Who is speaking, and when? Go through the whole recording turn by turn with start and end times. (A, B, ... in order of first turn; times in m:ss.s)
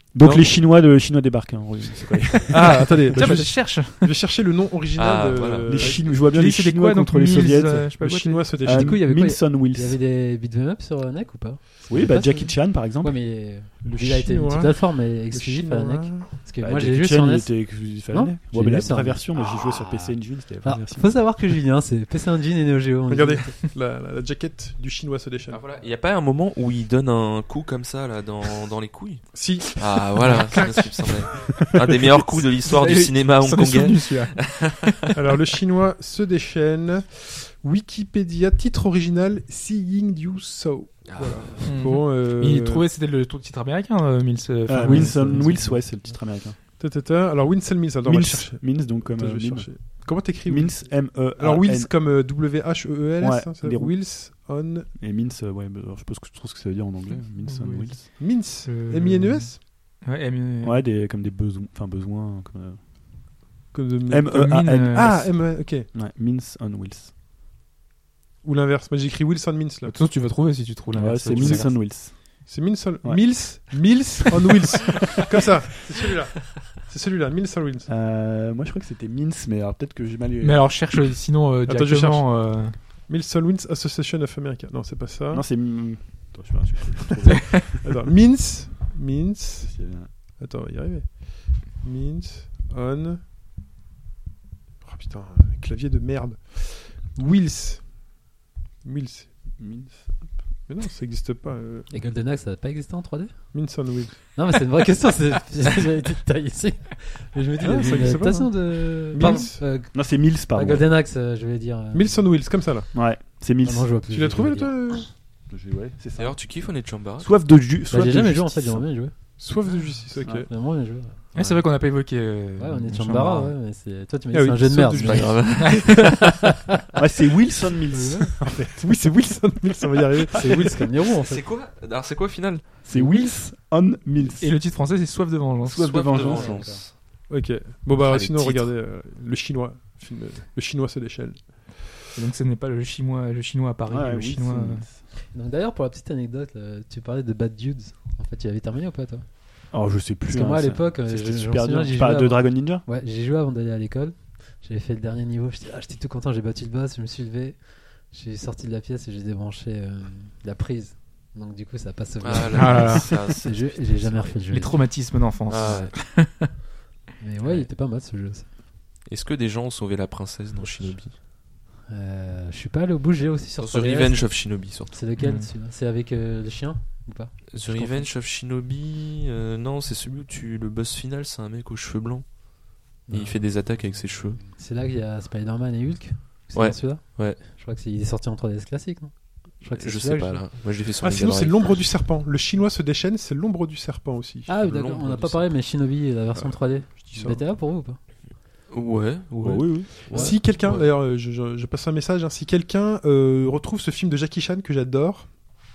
0:00.1-0:03.5 A
0:02.4-0:04.1 B
0:02.5-0:06.2 C
0:05.0-0:06.0 D
0:05.7-0:08.0 A
0:06.2-0:08.6 B
0:08.0-0:09.0 C
0:08.5-0:10.0 A
0:08.6-0:23.6 E
0:11.9-0:14.3 A
0:14.1-0:16.3 C
0:16.6-0:21.2 A
0:23.1-0:25.6 C
0:25.5-0:35.2 D
0:29.3-0:30.6 C
0:30.3-0:30.6 B
0:31.3-0:31.7 B
0:32.6-0:34.5 B
0:35.2-0:42.9 C
0:41.1-0:41.6 D
0:41.6-0:45.8 B
0:44.7-0:46.6 A
0:44.8-0:45.1 C
0:46.8-0:54.9 C
0:48.0-0:51.9 A
0:53.2-0:54.2 A
0:55.0-0:58.0 A
0:57.1-1:00.8 B
0:58.1-0:59.6 C
1:00.6-1:02.8 A
1:03.7-1:05.9 C
1:04.1-1:07.1 A
1:04.3-1:05.3 B
1:08.4-1:09.9 C
1:09.9-1:11.8 B
1:10.9-1:12.5 A
1:11.3-1:11.8 C
1:12.5-1:17.9 C
1:13.0-1:13.3 A
1:17.9-1:20.8 A
1:20.4-1:22.8 B
1:21.7-1:25.4 C
1:25.3-1:27.9 A
1:27.7-1:29.7 C
1:29.6-1:30.1 A
1:30.3-1:33.2 C
1:34.8-1:38.2 C
1:38.8-1:39.3 C
1:39.6-1:40.3 A
1:40.7-1:41.9 C
1:41.9-1:43.5 E
1:43.5-1:44.2 C
1:44.4-1:52.3 E
1:47.6-1:49.6 C
1:49.8-1:50.9 A
1:51.9-1:52.9 C
1:52.9-1:53.9 A
1:53.6-1:54.9 E
1:54.1-1:55.1 C
1:55.5-1:56.6 A
1:56.2-1:57.4 D
1:57.2-1:58.8 A
1:57.9-1:59.1 E
1:59.4-2:00.5 C
2:00.3-2:01.5 E
2:01.3-2:03.6 B
2:02.6-2:06.6 E
2:04.3-2:05.5 C
2:05.0-2:06.4 D
2:05.6-2:05.9 B
2:07.0-2:08.6 A
2:07.9-2:08.3 E
2:08.4-2:10.8 C
2:10.3-2:11.4 E
2:11.2-2:12.8 D
2:12.9-2:14.7 A
2:12.9-2:13.3 B
2:14.4-2:16.2 B
2:15.6-2:16.8 A
2:15.8-2:17.0 D
2:16.2-2:16.8 E
2:17.3-2:21.5 C
2:18.0-2:18.8 D
2:22.2-2:24.9 B
2:23.9-2:25.0 A
2:25.3-2:29.2 E
2:29.7-2:32.8 A
2:30.3-2:44.8 E
2:42.2-2:44.4 D
2:42.5-2:43.2 B
2:44.5-2:46.5 B
2:45.5-2:45.9 D
2:45.6-2:46.0 E
2:47.2-2:48.5 E
2:47.4-2:47.7 D
2:49.1-2:51.2 D
2:51.9-2:58.1 E
2:53.6-2:55.0 D
2:55.2-2:55.5 B
2:57.5-3:04.4 D
3:03.1-3:10.5 E
3:06.5-3:07.4 D
3:09.7-3:11.9 D
3:11.0-3:14.5 C
3:14.5-3:18.0 E
3:14.6-3:15.6 D
3:16.4-3:17.4 C
3:18.7-3:20.9 D
3:19.4-3:19.9 A
3:20.1-3:20.4 E
3:20.1-3:25.4 C